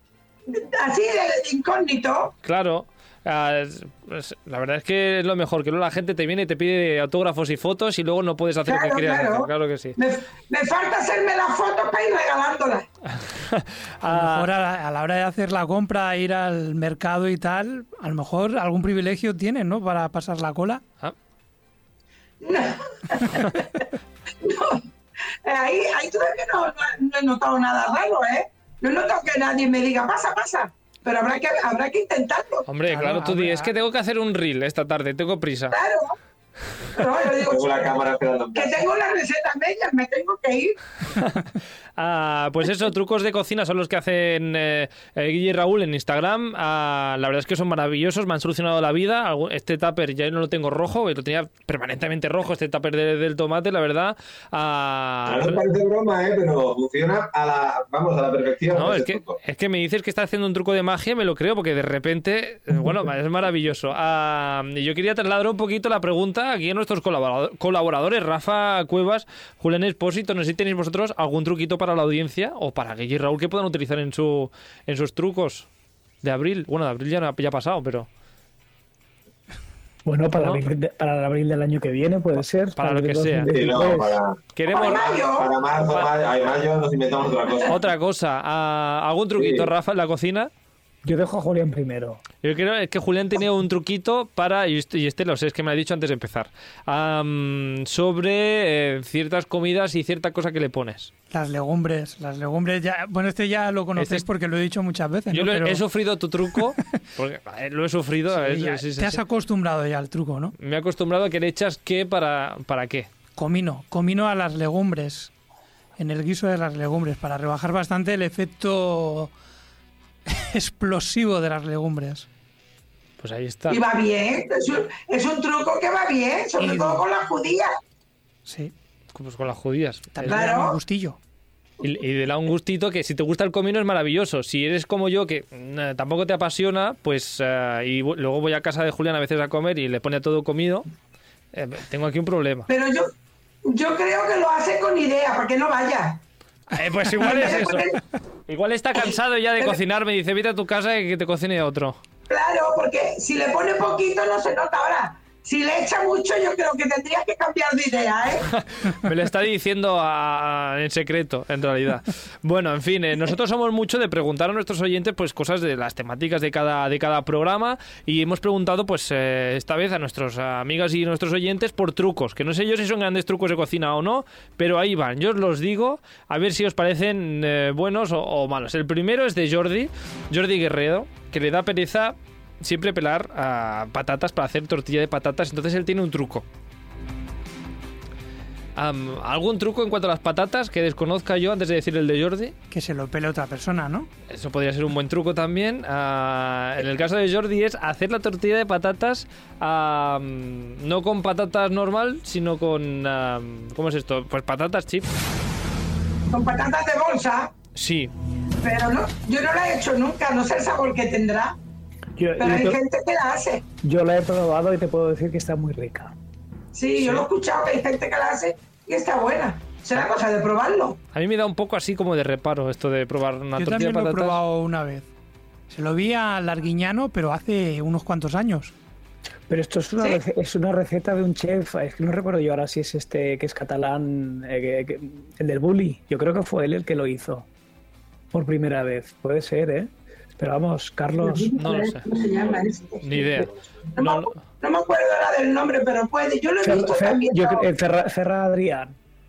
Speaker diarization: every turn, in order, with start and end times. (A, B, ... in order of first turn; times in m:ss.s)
0:00.5-0:02.4 A
0:02.4-0:10.0 B
0:08.7-0:12.9 A
0:13.1-0:14.5 B
0:14.0-0:20.8 C
0:22.4-0:23.7 A
0:24.4-0:24.8 A
0:25.4-0:32.7 A
0:32.7-0:35.8 B
0:32.9-0:33.7 C
0:35.7-0:36.2 A
0:37.0-0:37.9 A
0:37.3-0:38.8 D
0:38.6-0:40.8 A
0:42.0-0:55.6 B
0:55.3-0:59.4 D
0:58.7-1:15.7 B
1:16.2-1:18.1 B
1:20.0-1:24.2 E
1:22.8-1:23.5 B
1:23.5-1:24.4 D
1:24.6-1:25.2 B
1:24.7-1:25.5 A
1:25.2-1:27.8 D
1:27.7-1:30.5 B
1:29.4-1:29.7 D
1:31.0-1:32.2 E
1:32.4-1:41.1 B
1:41.3-1:45.8 C
1:44.0-1:44.3 B
1:45.3-1:49.2 B
1:48.3-1:50.5 C
1:50.6-1:53.1 B
1:53.4-1:55.3 C
1:56.0-1:59.3 C
2:00.3-2:02.3 C
2:03.2-2:03.8 B
2:03.7-2:07.7 A
2:06.7-2:06.9 C
2:08.5-2:08.7 C
2:09.2-2:10.4 B
2:10.2-2:11.2 C
2:10.3-2:10.8 A
2:11.8-2:20.9 B
2:21.5-2:22.7 B
2:22.7-2:23.1 A
2:23.6-2:26.2 A
2:26.7-2:27.8 B
2:27.2-2:28.0 A
2:28.5-2:32.0 B
2:32.3-2:38.5 A
2:38.5-3:06.4 B
3:08.8-3:12.6 B
3:12.7-3:14.1 C
3:14.3-3:25.1 B
3:26.3-3:27.5 A
3:27.8-3:28.1 B
3:28.6-3:31.6 A
3:32.2-3:32.8 E
3:32.4-3:33.7 A
3:33.8-3:36.2 E
3:36.7-3:41.0 A
3:41.1-3:44.4 B
3:43.6-3:45.1 C
3:45.7-3:48.7 C
3:49.5-3:57.5 E
3:58.3-4:01.5 E
4:01.2-4:03.0 A
4:01.6-4:02.0 B
4:02.1-4:03.7 D
4:03.0-4:04.4 B
4:04.0-4:07.6 A
4:06.6-4:09.0 E